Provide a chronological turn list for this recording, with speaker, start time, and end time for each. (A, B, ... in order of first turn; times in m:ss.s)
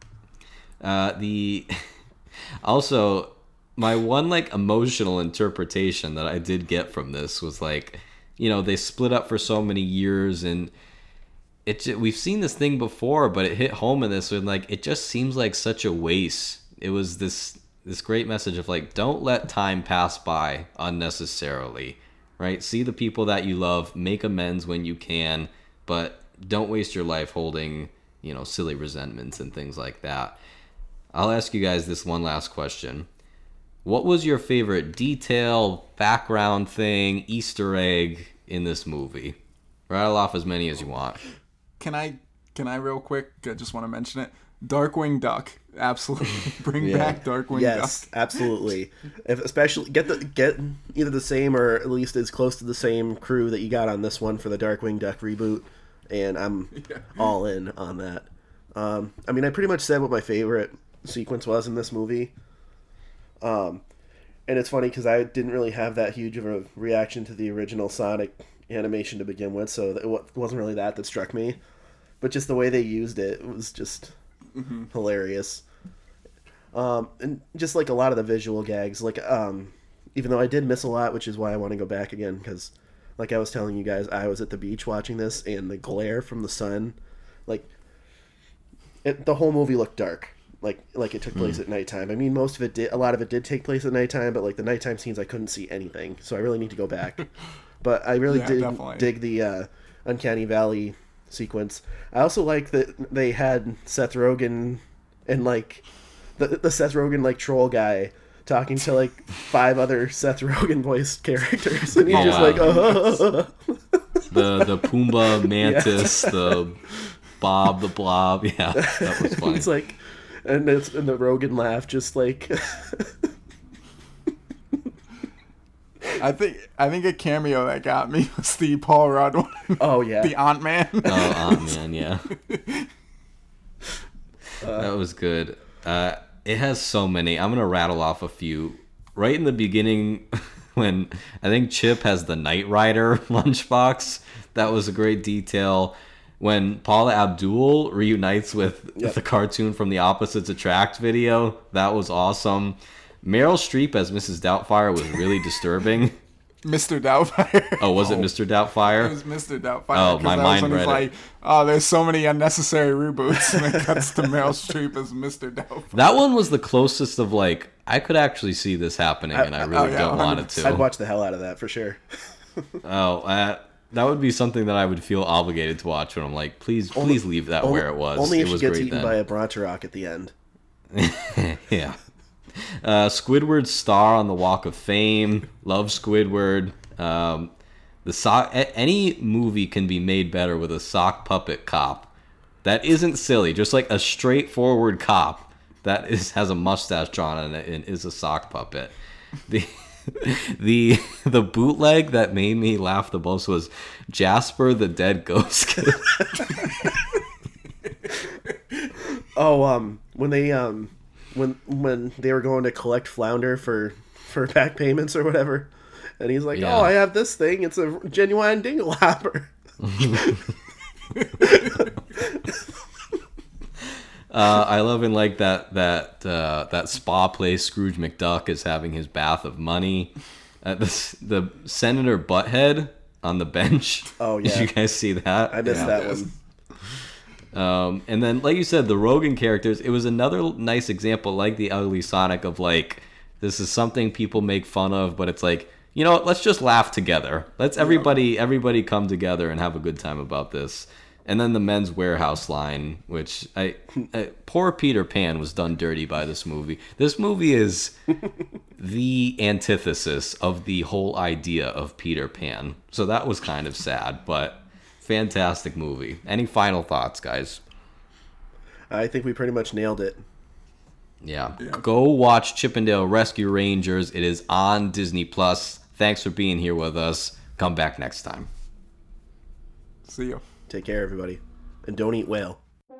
0:00.8-0:01.7 A
0:02.6-0:10.7 A
0:11.6-0:30.4 A
0:31.1-0:33.1 A
0:33.8-0:39.4 A
0:39.9-0:41.2 A
0:41.8-0:48.5 B
0:46.8-0:47.2 A
0:47.5-1:02.3 C
0:56.7-0:57.2 B
1:03.4-1:03.8 C
1:04.5-1:11.6 C
1:12.2-1:14.1 C
1:14.6-1:14.9 B
1:14.9-1:15.6 C
1:16.7-1:27.0 C
1:29.0-1:37.3 C
1:37.8-1:45.8 C
1:38.2-1:39.1 B
1:46.4-1:54.0 C
1:52.1-1:52.7 A
1:52.1-1:53.0 B
1:54.3-1:56.8 A
1:55.2-1:56.6 C
1:57.4-1:59.7 A
1:58.7-2:03.1 C
2:06.2-2:12.9 B
2:09.8-2:10.3 C
2:11.0-2:12.2 A
2:14.6-2:14.9 C
2:14.8-2:36.2 A
2:36.6-2:38.3 B
2:37.8-2:39.2 A
2:38.9-2:46.0 B
2:39.9-2:41.1 A
2:43.5-2:43.8 C
2:45.9-2:50.9 A
2:49.3-2:49.8 C
2:49.7-2:50.6 B
2:50.6-2:52.0 C
2:52.8-2:59.2 A
2:56.9-3:00.3 C
3:00.9-3:02.0 A
3:02.6-3:07.5 A
3:08.0-3:12.1 A
3:12.6-3:18.9 A
3:19.5-3:26.5 A
3:29.3-3:40.4 C
3:36.5-3:36.9 A
3:41.4-3:42.5 C
3:44.3-3:56.0 A
3:54.2-3:54.7 C
3:55.5-3:56.3 C
3:55.7-3:56.2 B
3:57.5-4:18.1 A
4:07.8-4:08.2 C
4:18.8-4:27.6 A
4:28.9-4:30.2 C
4:31.2-4:38.5 A
4:40.0-4:40.4 B
4:40.7-4:42.6 C